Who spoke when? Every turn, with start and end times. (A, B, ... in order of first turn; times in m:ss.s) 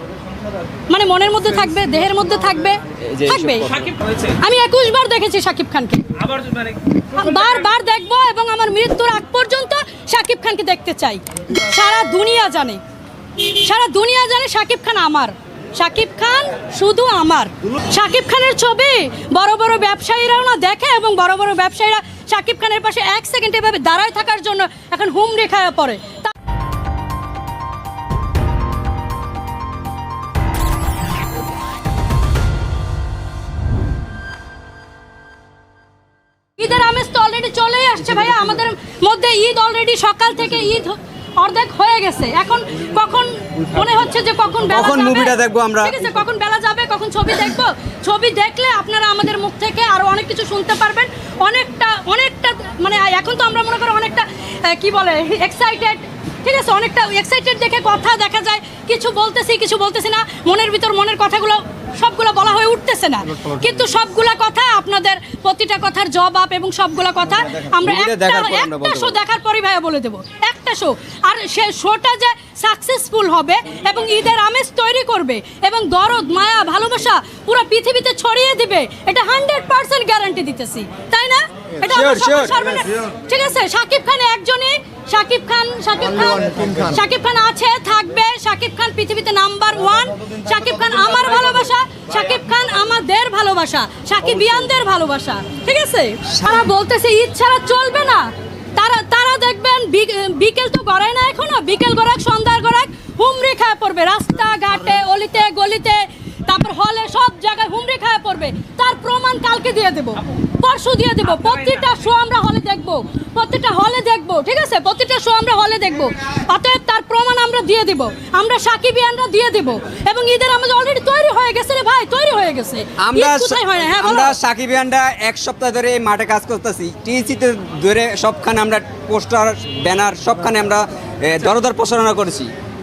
0:00.9-0:03.7 A
0:03.0-0:03.9 B
0:03.6-0:04.4 C
0:04.4-0:06.1 A
0:06.1-0:07.6 C
0:07.1-0:12.8 A
0:13.4-0:26.3 A
0:36.6-2:04.4 A
0:44.6-0:46.0 B
1:07.4-1:09.2 B
1:21.8-1:22.6 B
1:51.2-1:51.9 C
2:03.0-2:12.5 B